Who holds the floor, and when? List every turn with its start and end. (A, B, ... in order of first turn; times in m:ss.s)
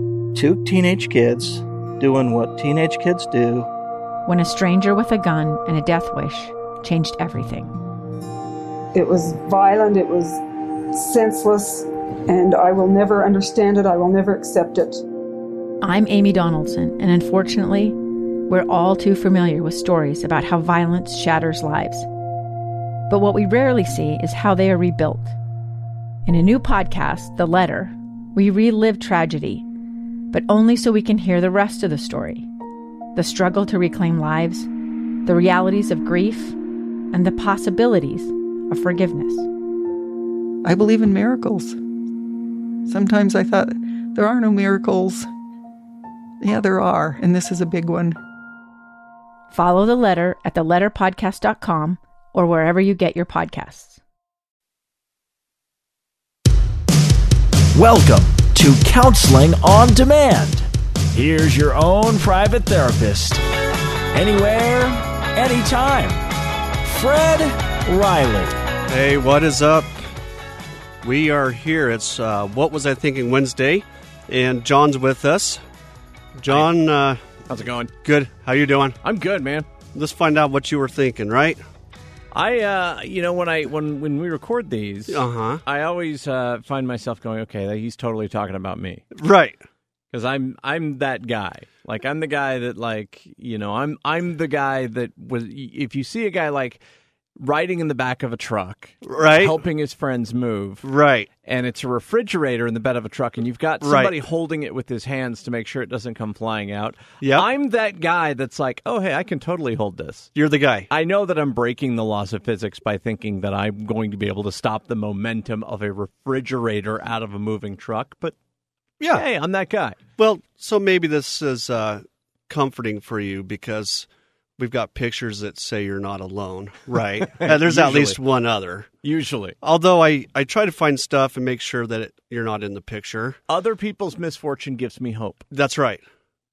0:00.3-0:03.7 A
0:04.2-0:07.7 B
0:08.9-0:10.4 C
0:11.0-0:15.0 C
0:15.8-0:18.0 B
0:18.5-0:22.1 B
0:23.1-0:25.4 B
0:26.2-0:29.6 B
0:30.3-0:32.5 B
0:33.1-0:34.7 B
0:35.2-0:36.6 B
0:37.1-0:39.5 B
0:40.6-0:41.8 D
0:42.8-0:45.3 D
0:46.4-0:48.2 D
0:49.5-0:54.0 B
0:57.7-1:03.4 E
1:04.1-1:06.2 E
1:06.8-1:08.6 E
1:08.9-1:10.0 F
1:11.0-1:15.6 F
1:16.4-1:17.2 F
1:17.5-1:17.9 G
1:18.0-1:19.0 F
1:19.0-1:19.7 G
1:19.9-1:21.6 F
1:22.3-1:29.0 G
1:25.1-1:25.6 F
1:29.1-1:29.6 F
1:30.1-1:36.8 G
1:37.4-1:40.8 G
1:39.0-1:39.6 F
1:40.8-1:41.3 F
1:41.4-1:50.3 G
1:43.8-1:44.2 F
1:47.2-1:47.5 F
1:50.3-1:50.9 F
1:50.9-1:58.3 G
1:59.0-1:59.2 F
1:59.1-2:00.0 G
2:00.2-2:08.9 F
2:07.2-2:08.2 G
2:09.0-2:09.6 G
2:09.6-2:13.4 F
2:13.5-2:15.5 G
2:15.5-2:16.0 F